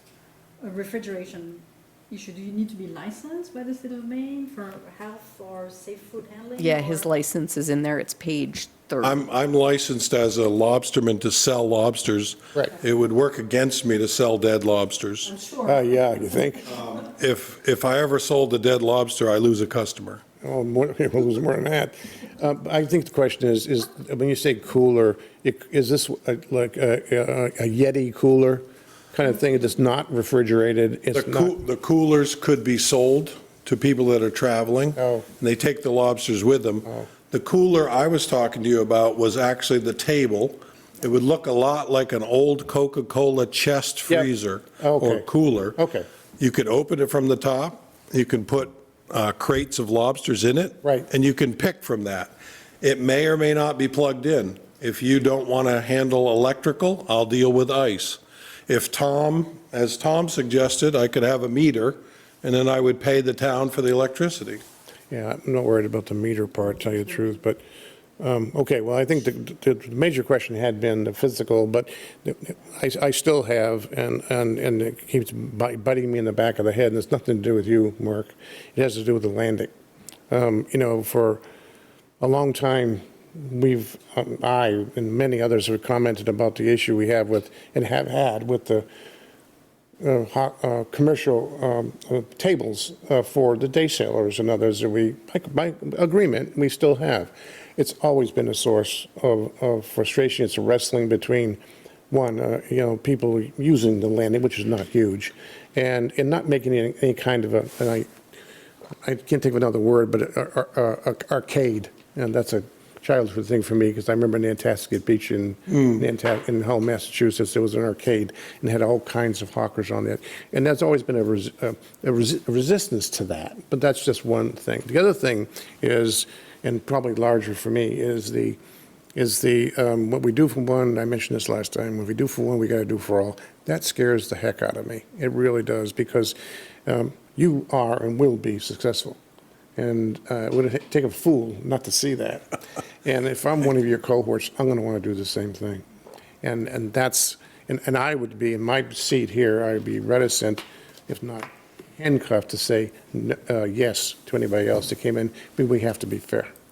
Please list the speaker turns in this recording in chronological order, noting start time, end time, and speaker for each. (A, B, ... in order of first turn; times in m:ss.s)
0:00.6-0:07.1 A
0:06.6-0:09.2 B
0:09.0-0:15.3 C
0:15.2-0:15.9 A
0:15.6-0:16.7 D
0:16.6-0:20.2 C
0:20.4-0:31.5 D
0:31.1-0:45.8 C
0:35.0-0:35.3 D
0:36.8-0:37.1 D
0:44.1-0:46.1 D
0:46.4-1:04.6 C
0:50.8-0:51.1 D
1:05.1-1:07.6 D
1:08.2-1:19.7 D
1:20.3-1:21.4 D
1:22.2-1:28.9 D
1:30.0-1:41.6 D
1:42.1-1:48.1 D
1:49.0-2:08.6 D
1:55.7-1:56.0 C
2:09.1-2:19.2 D
2:19.8-2:25.8 D
2:26.4-2:36.5 D